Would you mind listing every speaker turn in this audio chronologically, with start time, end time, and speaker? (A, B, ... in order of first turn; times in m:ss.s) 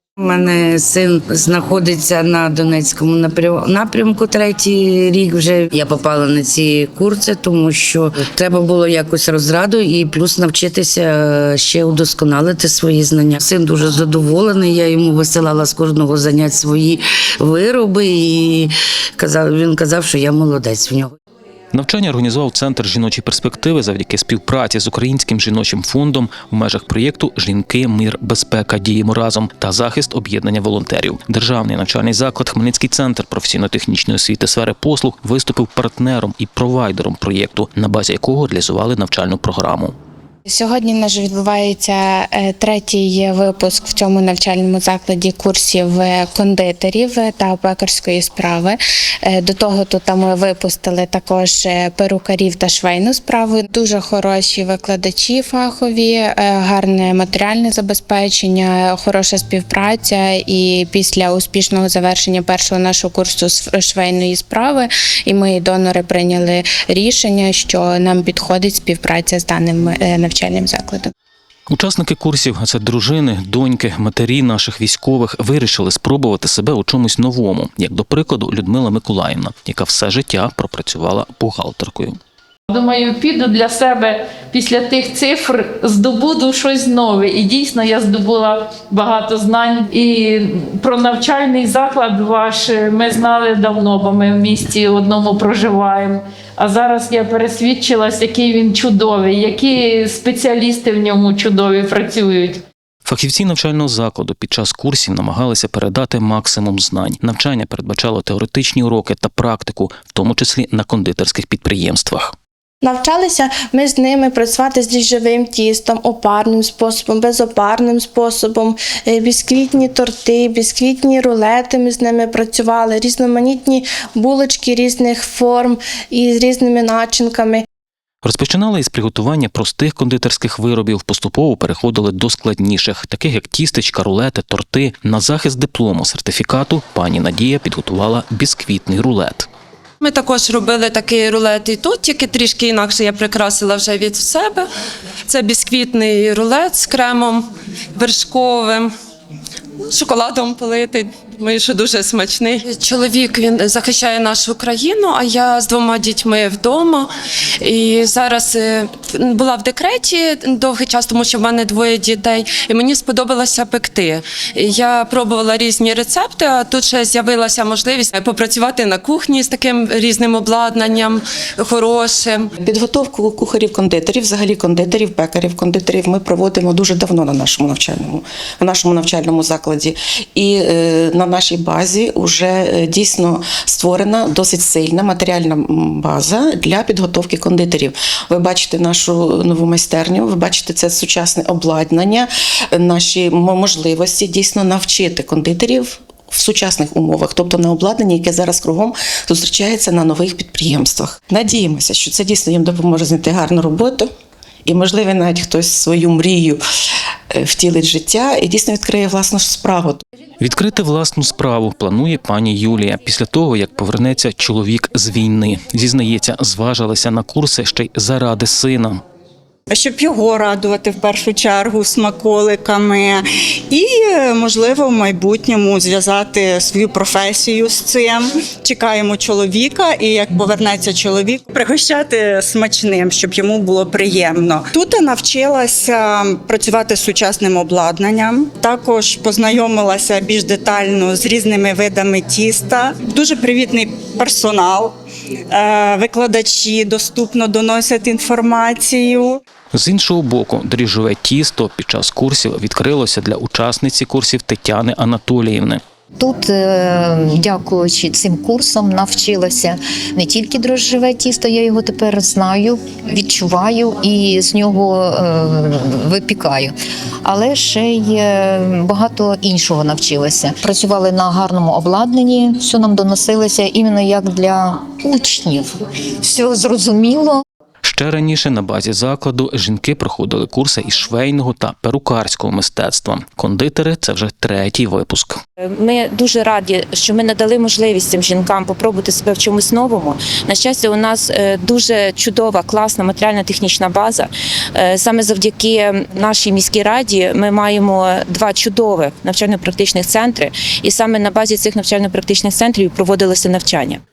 0:00.2-0:21.1 A
0:21.7-0:40.0 B
0:40.5-1:11.1 C
1:11.7-1:22.2 B
1:22.7-1:42.6 D
1:43.0-1:52.4 B
1:52.8-2:07.6 E
2:08.2-2:19.5 B
2:20.0-2:24.7 F
2:25.3-2:28.9 F
2:29.8-2:37.1 F
2:37.6-2:52.5 F
2:52.6-3:24.1 G
3:24.7-3:26.6 G
3:27.3-3:30.0 G
3:30.4-3:39.0 B
3:39.7-4:05.0 H
4:05.5-4:09.4 H
4:09.7-4:15.8 B
4:16.2-4:37.4 I
4:37.8-4:45.4 B
4:45.8-5:04.0 J